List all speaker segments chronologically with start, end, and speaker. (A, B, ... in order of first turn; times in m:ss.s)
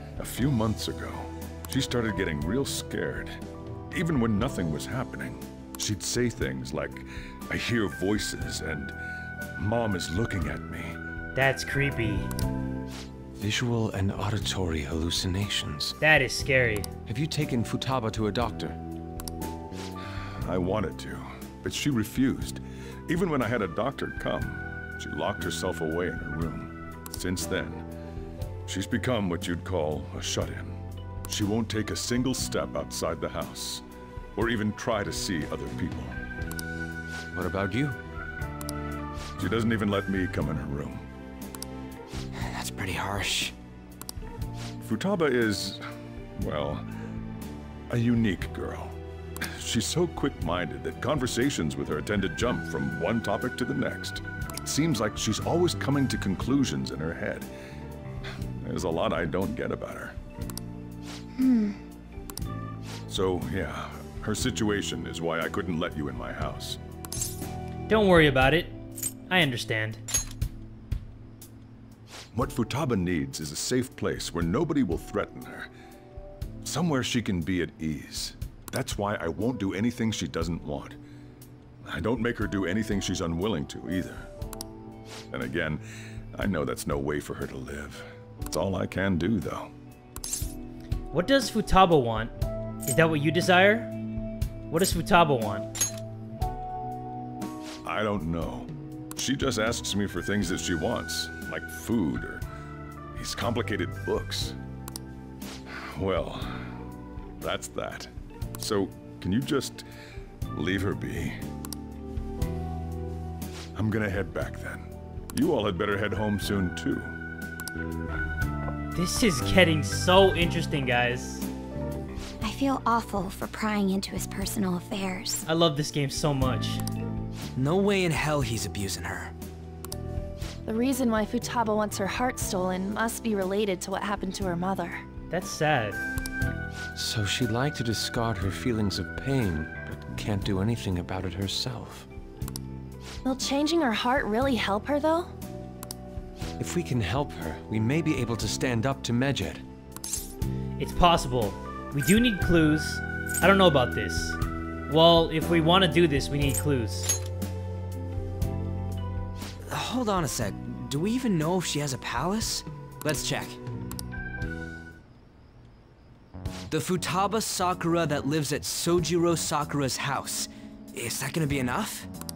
0:00.2-0:09.0 A
0:09.6-0:11.0 A
0:11.3-0:12.3 B
0:13.4-0:16.0 C
0:16.0-0:16.9 B
0:17.1-0:18.8 C
0:20.4-0:27.9 A
0:28.7-0:30.8 A
0:31.3-0:33.8 A
0:34.4-0:36.2 A
0:37.3-0:38.0 C
0:39.4-0:41.0 A
0:42.4-0:43.5 D
0:44.8-0:45.8 A
0:46.4-0:46.8 A
0:47.9-0:57.5 A
0:58.6-1:00.1 A
1:01.3-1:01.8 E
1:03.1-1:06.8 A
1:07.9-1:08.7 B
1:09.3-1:10.0 B
1:12.3-1:15.7 A
1:16.6-1:21.0 A
1:21.8-1:24.3 A
1:25.3-1:25.8 A
1:26.3-1:29.7 A
1:31.1-1:32.3 B
1:32.9-1:33.9 B
1:34.7-1:35.7 B
1:37.8-1:42.4 A
1:43.1-1:44.6 A
1:45.7-1:46.7 A
1:47.4-1:49.8 A
1:50.5-1:51.4 A
1:53.7-1:57.1 A
1:59.0-2:01.5 B
2:02.4-2:05.4 E
2:05.4-2:06.8 B
2:07.6-2:09.3 D
2:10.7-2:15.0 F
2:15.3-2:16.0 B
2:17.0-2:22.1 C
2:23.2-2:25.3 F
2:26.6-2:29.6 C
2:30.8-2:34.4 B
2:34.9-2:37.2 B
2:39.7-2:43.6 D
2:46.7-2:52.1 D